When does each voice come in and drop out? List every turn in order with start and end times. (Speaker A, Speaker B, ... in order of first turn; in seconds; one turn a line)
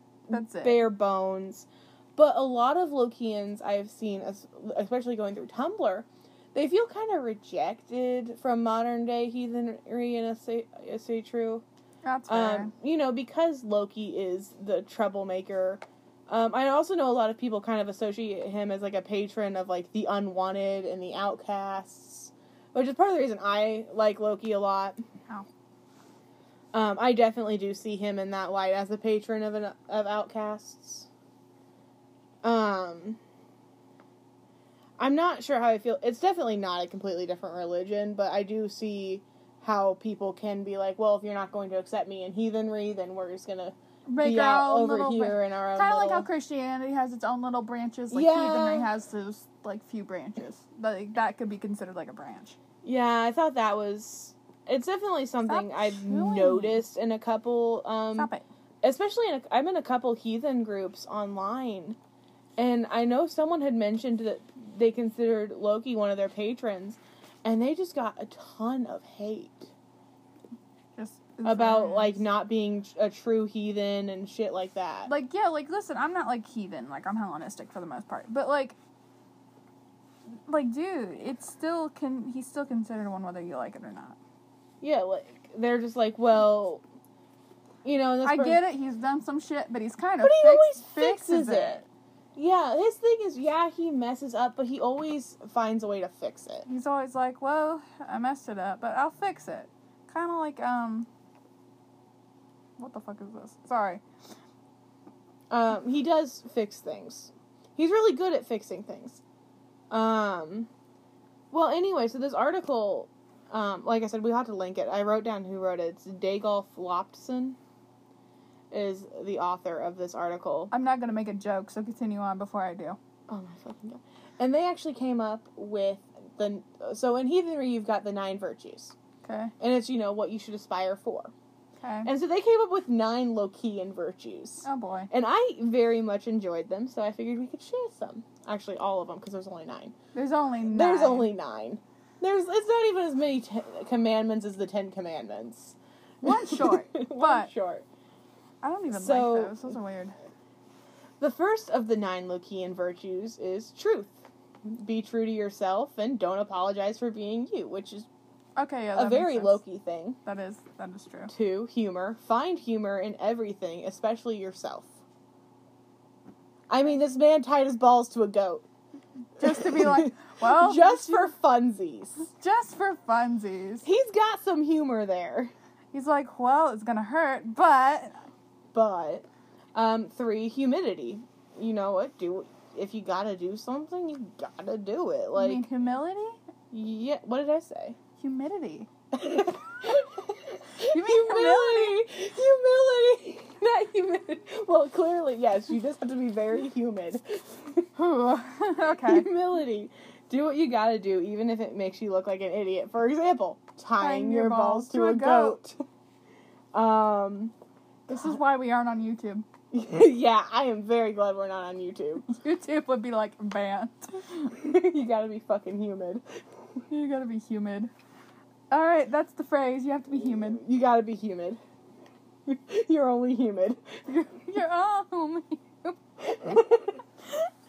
Speaker A: 0.3-11.6
Speaker B: 0.3-0.8
Speaker B: 12.0-12.7
Speaker A: 12.3-25.0
Speaker A: 26.7-31.1
Speaker A: 32.4-33.2
Speaker A: 35.0-46.3
Speaker B: 44.1-52.5
Speaker A: 48.1-48.9
Speaker A: 52.8-58.3
Speaker B: 55.5-56.8
Speaker B: 58.2-58.4
Speaker A: 58.8-62.0
Speaker A: 62.6-69.7
Speaker B: 71.0-72.2
Speaker A: 71.4-75.1
Speaker B: 75.1-78.8
Speaker B: 80.5-84.2
Speaker A: 84.8-86.8
Speaker A: 87.8-88.6
Speaker B: 88.2-91.8
Speaker A: 90.2-91.8
Speaker A: 92.3-96.7
Speaker B: 96.7-101.1
Speaker B: 102.8-104.0
Speaker A: 105.5-109.2
Speaker A: 109.9-110.7
Speaker A: 111.5-117.6
Speaker A: 118.7-120.7
Speaker B: 120.7-123.0
Speaker A: 123.3-128.9
Speaker B: 129.2-129.5
Speaker A: 129.6-131.3
Speaker B: 131.8-132.1
Speaker A: 132.0-139.9
Speaker B: 134.6-135.1
Speaker B: 140.1-141.3
Speaker A: 140.7-147.8
Speaker B: 146.2-147.5
Speaker B: 148.6-150.1
Speaker A: 148.9-149.8
Speaker A: 151.2-158.1
Speaker B: 158.6-159.6
Speaker A: 158.9-160.2
Speaker B: 160.2-161.3
Speaker A: 161.3-164.9
Speaker A: 166.7-168.7
Speaker B: 169.4-171.3
Speaker A: 169.4-172.3
Speaker B: 172.2-173.8
Speaker A: 173.8-175.5
Speaker B: 175.9-178.2
Speaker A: 178.7-185.6
Speaker B: 185.3-186.4
Speaker A: 186.7-188.0
Speaker B: 188.2-188.9
Speaker A: 189.1-197.9
Speaker B: 190.8-192.0
Speaker B: 197.9-199.3
Speaker A: 199.0-205.8
Speaker B: 204.0-205.6
Speaker A: 206.7-207.5
Speaker B: 208.1-209.4
Speaker A: 209.7-212.2
Speaker B: 212.2-214.5
Speaker A: 214.4-216.2
Speaker B: 216.9-217.9
Speaker B: 218.7-220.6
Speaker A: 220.5-221.6
Speaker A: 222.4-224.4
Speaker B: 224.4-226.0
Speaker A: 226.2-227.0